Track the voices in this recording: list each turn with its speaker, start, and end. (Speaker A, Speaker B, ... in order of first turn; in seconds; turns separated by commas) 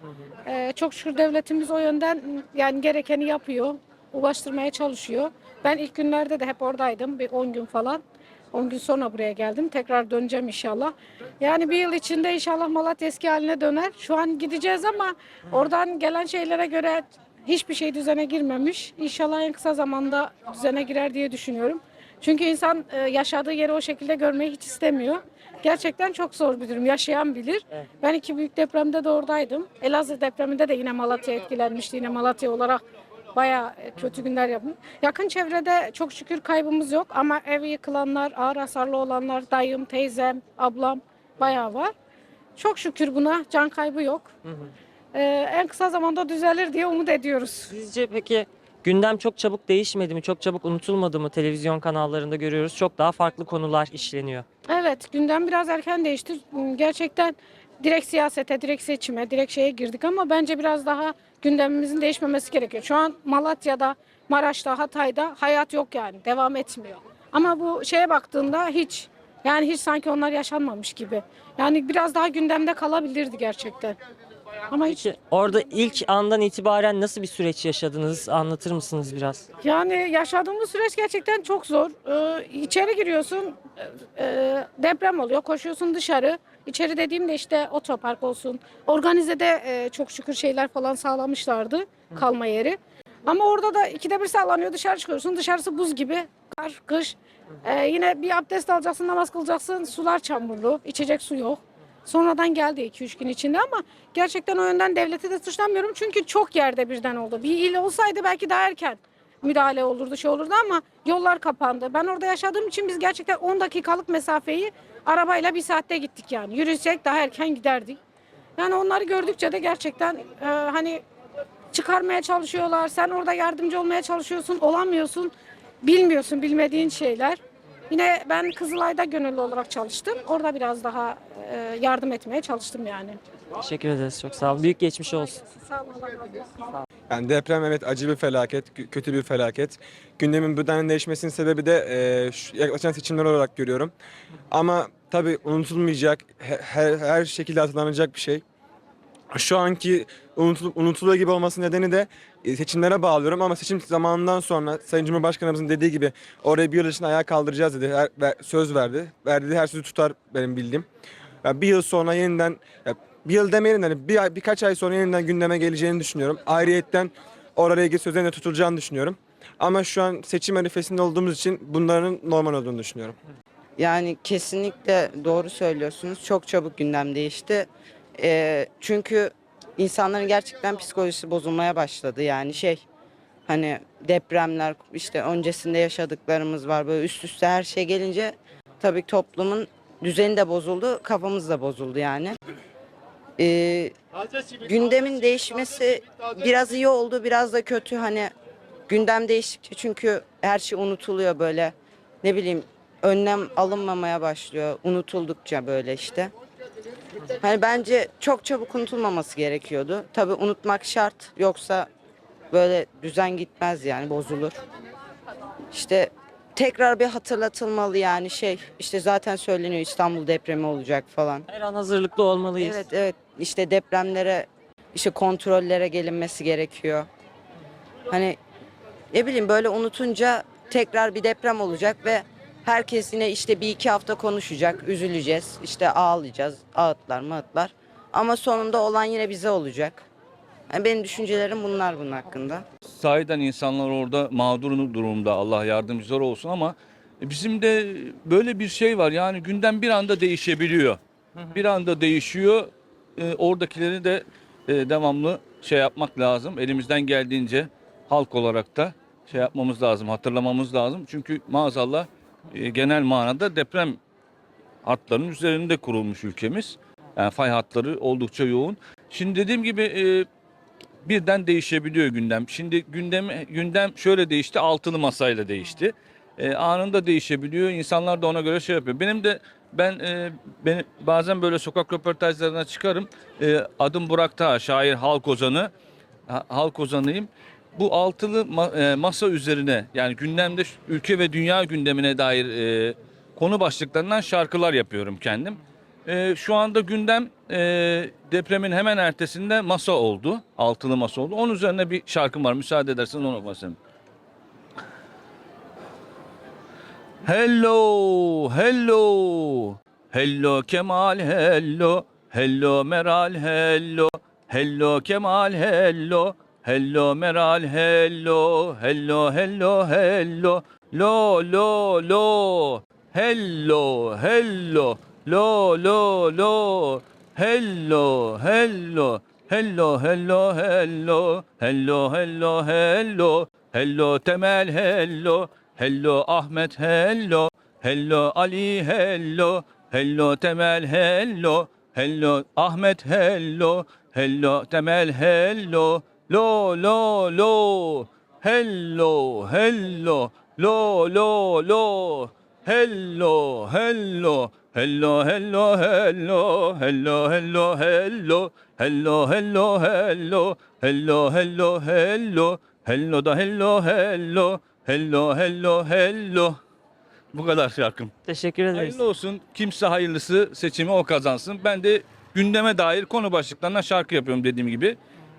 Speaker A: 0.4-32.8, Speaker A: 33.3-41.9, Speaker A: 42.5-44.3, Speaker A: 45.1-47.7, Speaker B: 47.7-54.4, Speaker A: 54.7-74.0, Speaker A: 74.7-75.0, Speaker B: 74.9-79.5, Speaker A: 79.6-118.0, Speaker A: 118.6-121.0, Speaker A: 121.7-133.2, Speaker B: 133.6-135.4, Speaker A: 135.0-136.7, Speaker C: 137.1-143.9, Speaker C: 144.5-148.4, Speaker C: 149.3-160.9, Speaker C: 161.4-173.2, Speaker D: 173.8-182.8, Speaker D: 183.5-192.3, Speaker D: 193.4-193.9, Speaker D: 194.7-198.3, Speaker D: 198.9-206.3, Speaker D: 207.4-211.9, Speaker D: 212.5-214.6, Speaker D: 215.7-221.4, Speaker B: 221.5-222.9, Speaker D: 222.7-227.1, Speaker D: 228.1-228.4, Speaker D: 229.1-240.0, Speaker D: 240.7-242.6, Speaker E: 242.9-251.0, Speaker E: 251.5-264.0, Speaker E: 264.8-270.3, Speaker E: 271.0-285.7, Speaker E: 286.3-303.8, Speaker E: 307.2-366.6, Speaker E: 367.3-368.1, Speaker B: 368.2-369.0, Speaker E: 368.7-375.0